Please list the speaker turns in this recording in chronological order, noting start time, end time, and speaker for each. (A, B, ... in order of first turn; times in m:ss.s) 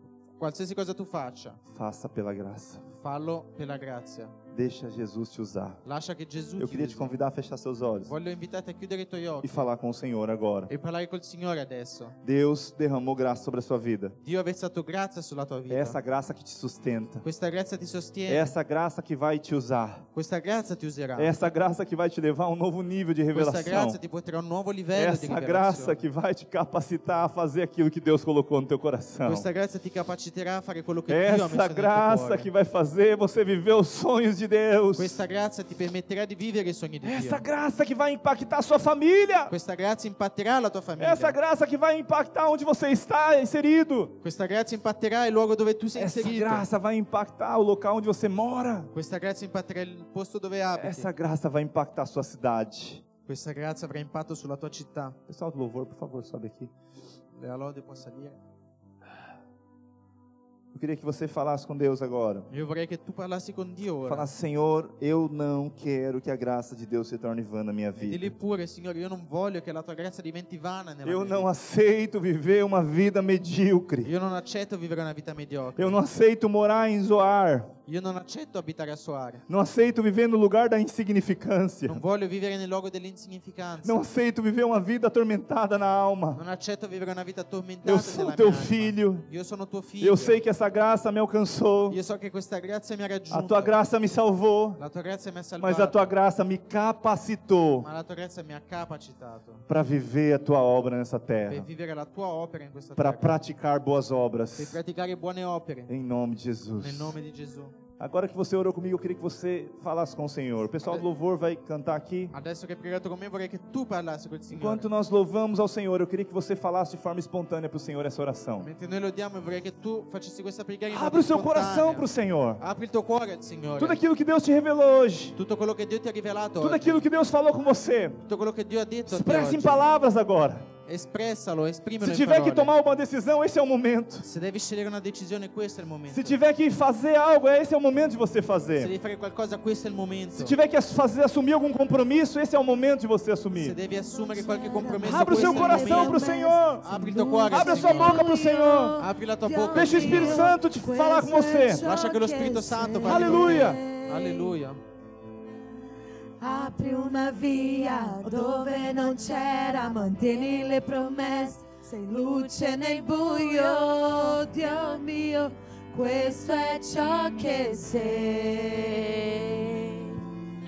0:00.4-0:01.6 A
0:01.7-0:02.8 B
0:03.0-0:04.3 A
0:04.5-0:05.8 B
0:05.8-0:07.2 A
0:06.6-0:08.1 B
0:08.0-0:09.7 A
0:09.4-0:10.7 B
0:10.7-0:12.2 A
0:12.2-0:14.2 B
0:14.2-0:16.0 A
0:15.7-0:17.2 B
0:17.2-0:18.5 A
0:18.3-0:20.0 B
0:20.1-0:21.3 A
0:21.2-0:24.0 B
0:23.3-0:26.0 A
0:24.9-0:29.5 B
0:29.2-0:32.5 A
0:31.1-0:35.2 B
0:35.0-0:37.4 A
0:37.0-0:39.5 B
0:39.5-0:41.4 A
0:41.0-0:44.1 B
0:44.2-0:46.6 A
0:46.0-0:48.9 B
0:48.9-0:51.1 A
0:50.8-0:53.0 B
0:53.3-0:55.2 A
0:55.3-0:56.7 B
0:57.3-0:58.4 A
1:00.7-1:02.5 B
1:02.5-1:04.3 A
1:04.0-1:08.3 B
1:08.0-1:11.5 A
1:11.0-1:14.1 B
1:14.0-1:16.0 A
1:15.8-1:17.7 B
1:17.8-1:19.4 A
1:19.5-1:22.0 B
1:21.8-1:24.0 A
1:23.8-1:26.4 B
1:26.4-1:30.4 A
1:27.8-1:29.3 B
1:30.0-1:32.0 B
1:31.9-1:33.8 A
1:33.3-1:34.8 B
1:34.8-1:36.1 A
1:35.6-1:37.9 B
1:37.8-1:39.6 A
1:39.7-1:41.7 B
1:41.5-1:43.4 A
1:43.0-1:44.8 B
1:44.6-1:45.9 A
1:45.9-1:47.2 B
1:46.8-1:47.7 A
1:48.0-1:52.3 B
1:52.3-1:54.9 A
1:54.5-1:58.7 B
1:58.6-2:04.0 A
2:00.9-2:02.6 B
2:03.8-2:05.4 B
2:05.4-2:07.0 A
2:06.6-2:08.2 B
2:08.2-2:09.8 A
2:09.1-2:10.7 B
2:10.8-2:12.7 A
2:12.0-2:14.2 B
2:14.2-2:16.4 A
2:16.1-2:18.9 B
2:18.8-2:20.6 A
2:20.3-2:23.8 B
2:23.5-2:26.3 A
2:24.2-2:34.6 C
2:25.0-2:26.8 B
2:26.8-2:28.2 A
2:27.5-2:29.0 B
2:29.0-2:30.5 A
2:29.7-2:31.8 B
2:31.8-2:34.8 A
2:33.0-2:33.8 B
2:36.4-2:50.2 C